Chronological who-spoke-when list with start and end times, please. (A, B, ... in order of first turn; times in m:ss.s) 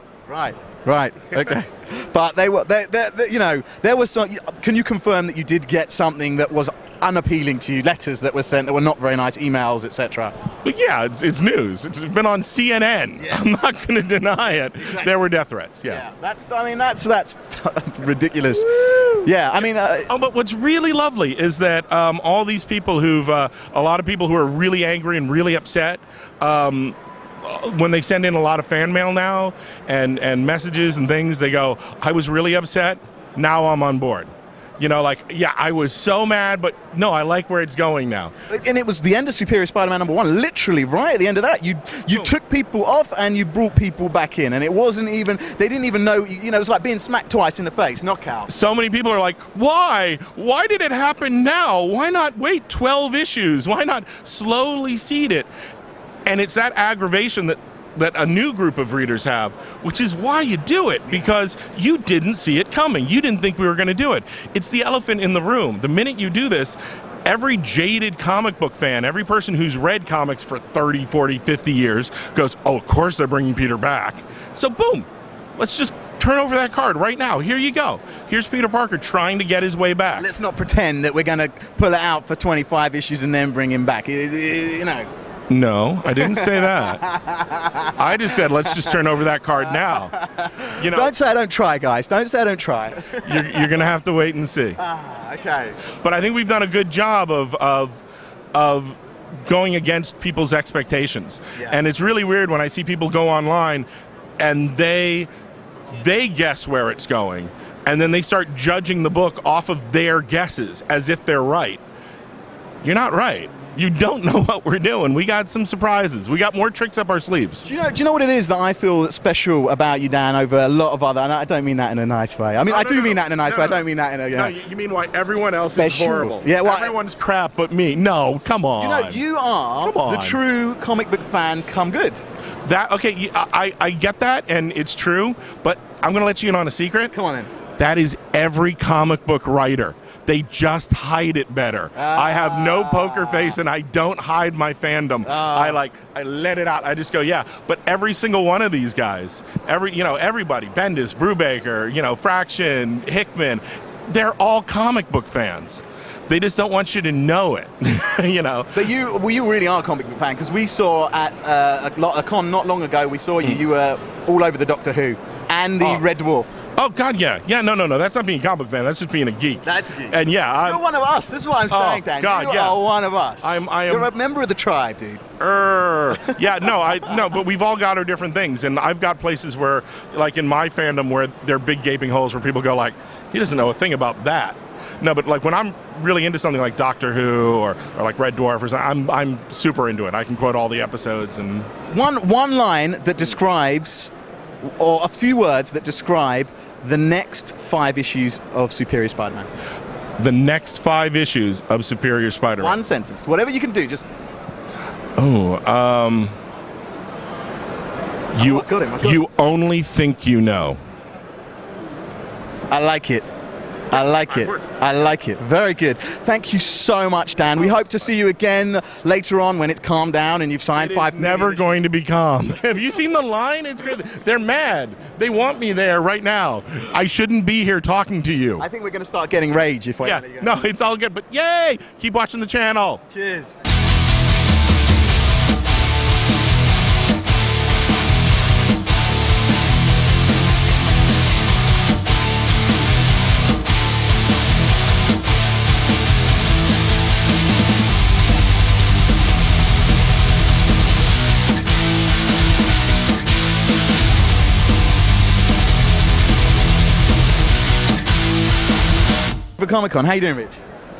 0:00.3-0:10.3 A
0:10.6-0:16.0 B
0:13.2-0:13.4 A
0:14.8-0:15.1 A
0:15.8-0:20.1 A
0:20.1-0:38.3 B
0:38.5-0:48.5 A
0:48.5-0:55.5 B
0:56.2-1:20.2 B
1:20.2-1:25.1 A
1:25.5-1:27.0 B
1:26.1-1:27.9 A
1:28.0-1:30.1 B
1:30.0-1:33.6 A
1:30.8-1:31.1 B
1:33.2-1:34.8 B
1:34.8-1:35.8 A
1:36.0-1:38.0 B
1:38.5-1:43.9 B
1:44.4-1:45.3 B
1:45.9-1:51.8 B
1:52.8-1:57.6 B
1:57.6-2:04.5 A
2:02.7-2:09.2 B
2:05.5-2:07.0 A
2:08.8-2:12.2 A
2:09.8-2:10.4 B
2:12.6-2:17.1 B
2:17.1-2:17.5 A
2:17.8-2:38.9 B
2:21.9-2:23.6 A
2:25.2-2:25.8 A
2:38.7-2:46.5 A
2:46.8-2:50.8 B
2:49.6-2:55.2 A
2:51.7-2:52.8 B
2:53.4-2:54.1 B
2:55.4-3:11.7 B
3:11.9-3:14.1 A
3:14.6-3:19.5 A
3:20.2-3:22.8 B
3:22.6-3:24.1 A
3:25.2-3:26.3 B
3:28.3-3:30.8 B
3:28.4-3:29.2 A
3:32.7-3:33.2 A
3:33.9-3:41.8 A
3:40.8-3:48.6 B
3:48.6-3:50.5 A
3:50.0-3:53.0 B
3:53.1-3:53.6 A
4:19.6-4:20.6 A